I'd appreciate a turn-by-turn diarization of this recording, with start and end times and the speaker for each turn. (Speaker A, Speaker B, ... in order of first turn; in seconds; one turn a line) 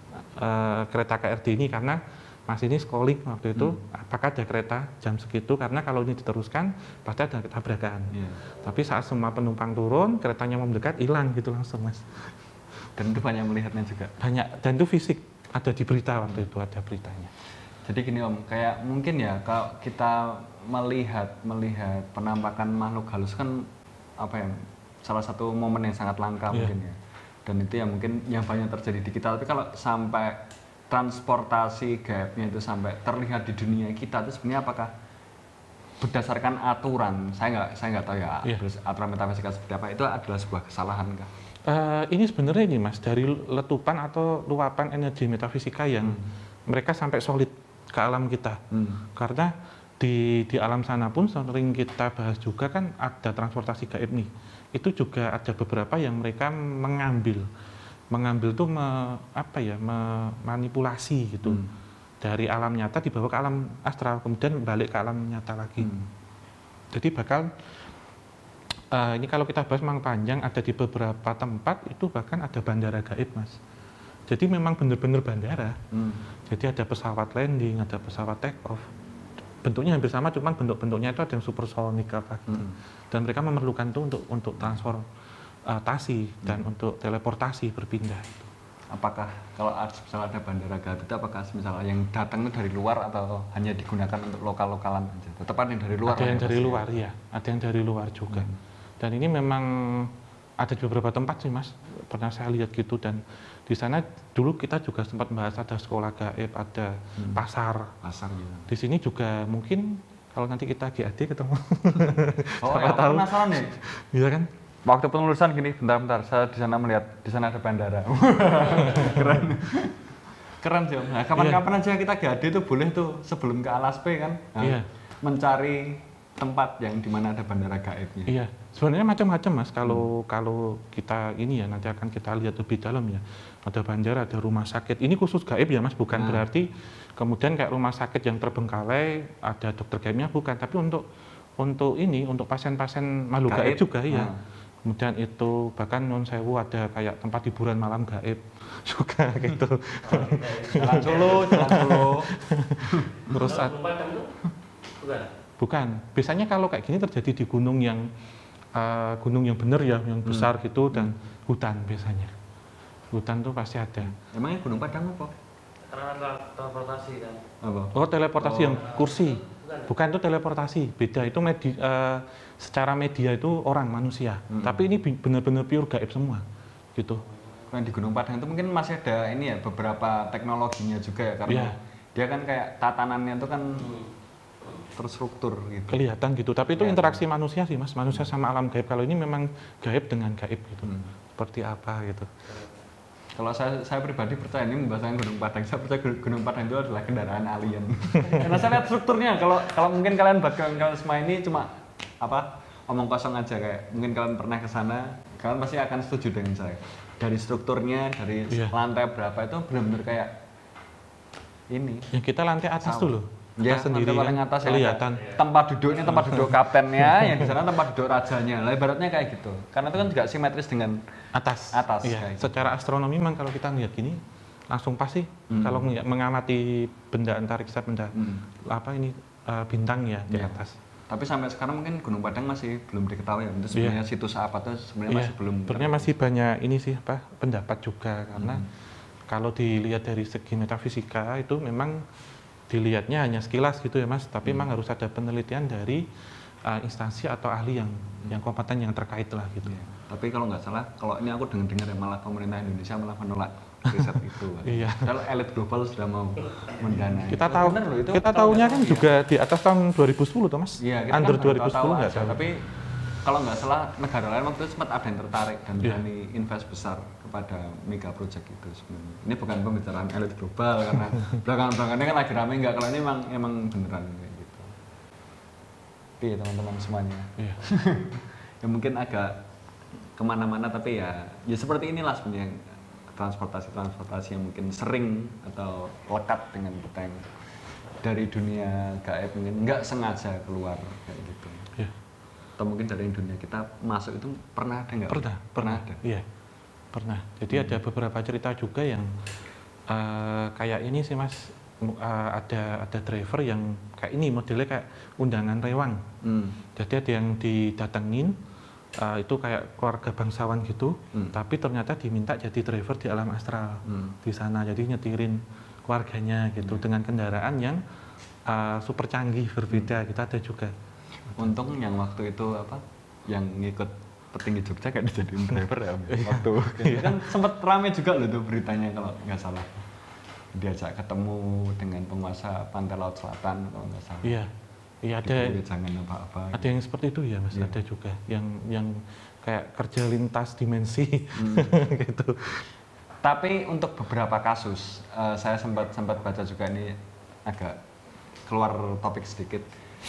Speaker A: 0.3-12.3
Speaker B: 8.1-8.4
Speaker B: 13.0-14.1
Speaker A: 14.2-17.3
Speaker B: 17.8-34.9
Speaker B: 36.0-41.3
Speaker A: 41.7-48.6
Speaker B: 48.7-49.0
Speaker A: 49.1-57.5
Speaker A: 58.1-61.6
Speaker B: 61.4-61.7
Speaker A: 62.2-65.9
Speaker B: 65.8-66.1
Speaker A: 66.9-67.5
Speaker A: 68.9-73.6
Speaker A: 74.3-75.8
Speaker B: 75.9-76.2
Speaker A: 76.5-78.8
Speaker A: 79.6-85.0
Speaker B: 82.5-82.8
Speaker A: 85.7-88.5
Speaker B: 88.9-96.9
Speaker A: 96.0-98.5
Speaker B: 98.3-98.6
Speaker A: 99.0-108.0
Speaker B: 107.2-107.4
Speaker B: 108.0-108.7
Speaker A: 108.7-114.5
Speaker B: 111.9-113.7
Speaker B: 114.8-120.0
Speaker B: 120.6-128.3
Speaker A: 121.3-121.6
Speaker A: 124.6-124.8
Speaker A: 128.3-141.0
Speaker B: 136.1-136.4
Speaker A: 141.6-144.3
Speaker B: 143.4-144.4
Speaker A: 144.8-154.1
Speaker C: 150.1-150.6
Speaker B: 150.6-153.3
Speaker C: 153.4-154.3
Speaker C: 155.0-155.3
Speaker A: 155.6-158.1
Speaker A: 158.7-162.3
Speaker B: 160.2-161.1
Speaker A: 163.1-164.1
Speaker B: 164.0-165.3
Speaker C: 165.9-167.4
Speaker B: 167.6-168.8
Speaker A: 167.9-176.4
Speaker C: 169.0-169.8
Speaker B: 174.5-174.8
Speaker A: 176.9-177.2
Speaker B: 177.7-184.0
Speaker A: 181.5-181.8
Speaker B: 184.9-186.0
Speaker A: 185.9-192.3
Speaker B: 186.8-187.2
Speaker B: 190.8-191.1
Speaker B: 193.3-210.3
Speaker A: 198.2-198.6
Speaker A: 208.5-208.7
Speaker B: 211.7-212.1
Speaker A: 212.1-215.4
Speaker B: 212.8-221.0
Speaker A: 216.1-217.5
Speaker A: 221.3-230.8
Speaker B: 221.7-222.7
Speaker B: 225.5-225.9
Speaker B: 228.1-228.5
Speaker B: 230.3-236.1
Speaker A: 233.7-234.0
Speaker A: 235.1-238.6
Speaker B: 238.3-238.7
Speaker A: 239.3-242.0
Speaker A: 242.7-246.1
Speaker B: 244.4-244.7
Speaker A: 246.6-249.7
Speaker B: 249.6-259.1
Speaker A: 254.6-255.1
Speaker A: 257.2-262.4
Speaker B: 260.8-262.7
Speaker B: 263.2-274.7
Speaker B: 276.2-279.4
Speaker B: 280.2-287.2
Speaker B: 288.0-291.7
Speaker B: 292.6-296.0
Speaker A: 295.1-296.2
Speaker A: 296.9-299.1
Speaker B: 297.5-297.8
Speaker A: 299.9-306.0
Speaker B: 306.2-306.6
Speaker A: 306.7-308.3
Speaker A: 309.0-317.8
Speaker B: 313.9-314.1
Speaker A: 318.4-320.7
Speaker B: 321.4-329.8
Speaker A: 326.1-327.2
Speaker B: 330.5-334.4
Speaker A: 334.2-334.5
Speaker A: 335.0-335.6
Speaker B: 335.2-336.7
Speaker A: 336.5-342.6
Speaker B: 341.4-341.8
Speaker B: 343.2-347.8
Speaker B: 348.5-349.7